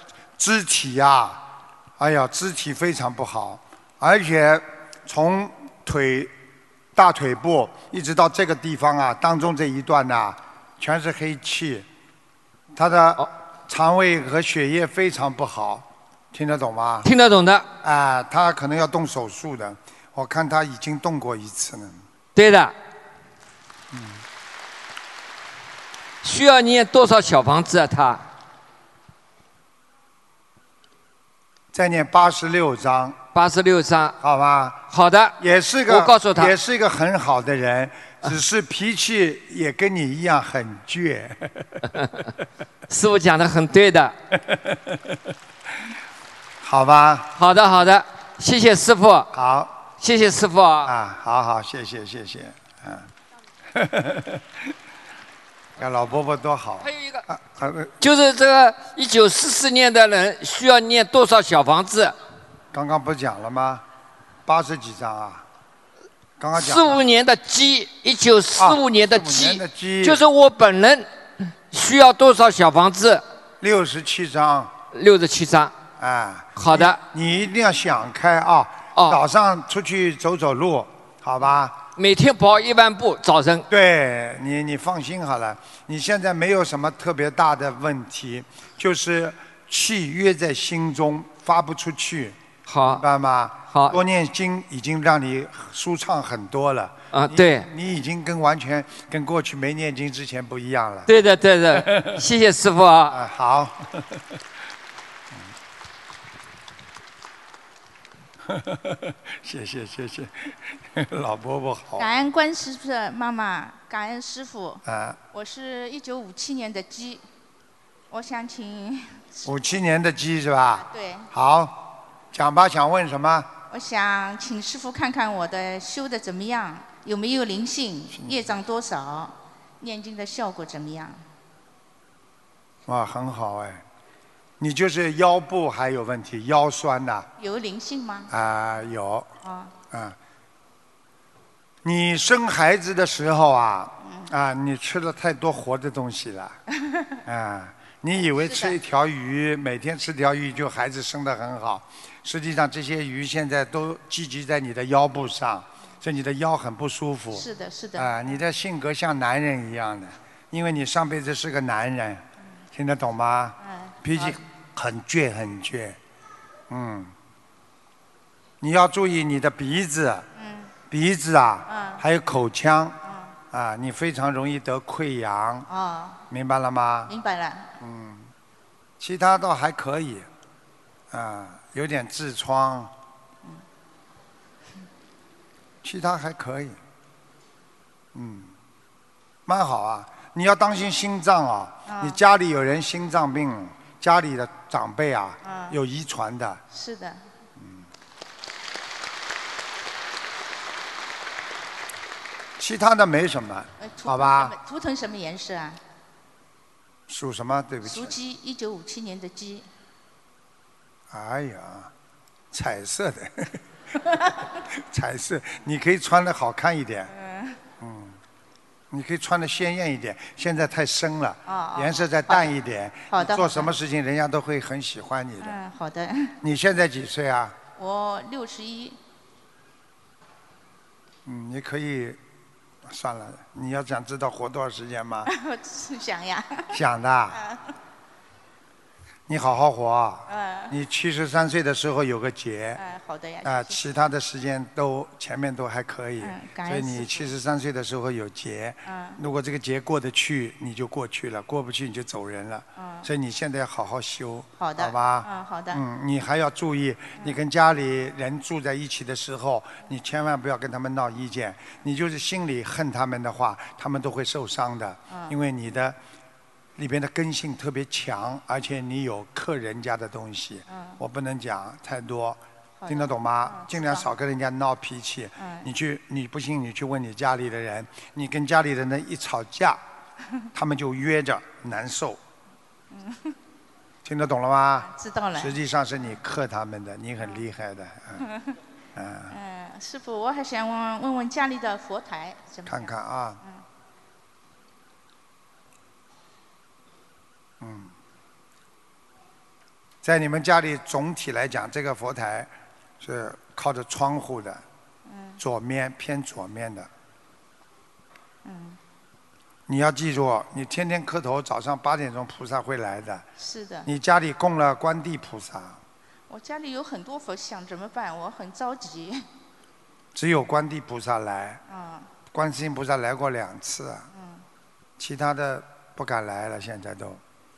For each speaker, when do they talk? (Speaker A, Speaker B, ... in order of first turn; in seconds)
Speaker A: 0.4-1.4, 2.0-6.3, 7.0-11.9, 12.7-17.1, 17.8-22.0, 23.9-24.2, 31.7-33.2, 34.2-34.9, 35.4-41.8, 44.5-44.8, 46.6-47.4, 49.3-49.8, 50.9-53.1, 53.7-54.5, 55.8-57.9, 62.7-63.8, 64.5-65.5, 66.4-67.0, 68.6-70.2, 73.6-74.8, 76.0-81.8, 83.7-92.4, 92.9-101.1, 101.7-102.2, 103.1-104.2, 108.4-112.1, 114.9-115.2, 119.5-123.5, 128.1-128.4, 132.9-133.8, 134.6-137.3, 138.3-139.3, 139.9-140.2, 141.8-146.6, 147.3-166.0, 166.7-167.1, 168.6-170.3, 170.9-173.0, 173.5-175.7, 176.3-177.1, 177.8-178.3, 179.0-180.3, 181.1-182.9, 185.8-186.8, 188.1-188.5, 189.5-196.6, 197.6-197.9, 202.6-204.5, 207.1-208.2, 211.1-211.9, 212.5-213.6, 214.7-217.1, 217.8-218.2, 218.9-225.6, 226.4-227.6, 231.2-232.2, 232.8-235.3, 236.7-237.4, 239.3-242.8, 243.4-266.0, 266.8-279.8, 280.6-282.2, 284.1-288.3, 289.0-289.4, 292.7-293.4, 297.6-297.9, 300.0-304.6, 305.4-306.9, 309.7-313.3, 313.9-315.8, 320.1-321.6, 322.3-324.1, 325.0-327.2
Speaker B: 17.1-17.7, 22.4-22.7, 26.2-28.2, 33.3-34.2, 34.9-35.4, 35.9-36.5, 42.9-44.1, 47.4-49.3, 50.0-50.9, 56.8-57.2, 58.0-62.1, 66.6-71.1, 71.7-73.2, 74.9-75.7, 76.6-77.0, 82.0-83.7, 92.7-93.0, 93.7-94.0, 97.1-97.7, 101.1-103.2
Speaker C: 112.0-117.2, 118.1-119.8, 120.7-121.3, 123.7-131.2, 137.4-138.3, 139.4-139.8, 146.8-147.1, 148.4-148.8, 157.3-158.2, 163.6-164.4, 170.4-170.7, 171.7-172.0, 173.0-173.4, 175.7-176.2, 177.1-177.7, 191.9-192.2, 195.4-195.8, 196.7-197.3, 203.8-205.8, 207.8-209.7, 217.1-217.6, 221.5-222.5, 223.1-223.8, 225.4-226.3, 227.8-229.0, 235.3-236.8, 237.3-237.7, 240.3-240.7, 242.8-243.8, 246.2-247.3, 248.9-249.2, 252.8-253.1, 254.6-255.8, 265.1-265.4, 270.7-271.0, 272.8-274.1, 275.4-275.7, 282.9-283.4, 284.8-285.6, 288.2-288.5, 289.3-292.9, 305.1-305.4, 308.4-308.8, 313.4-313.9, 316.3-319.2, 321.7-322.1, 324.1-324.4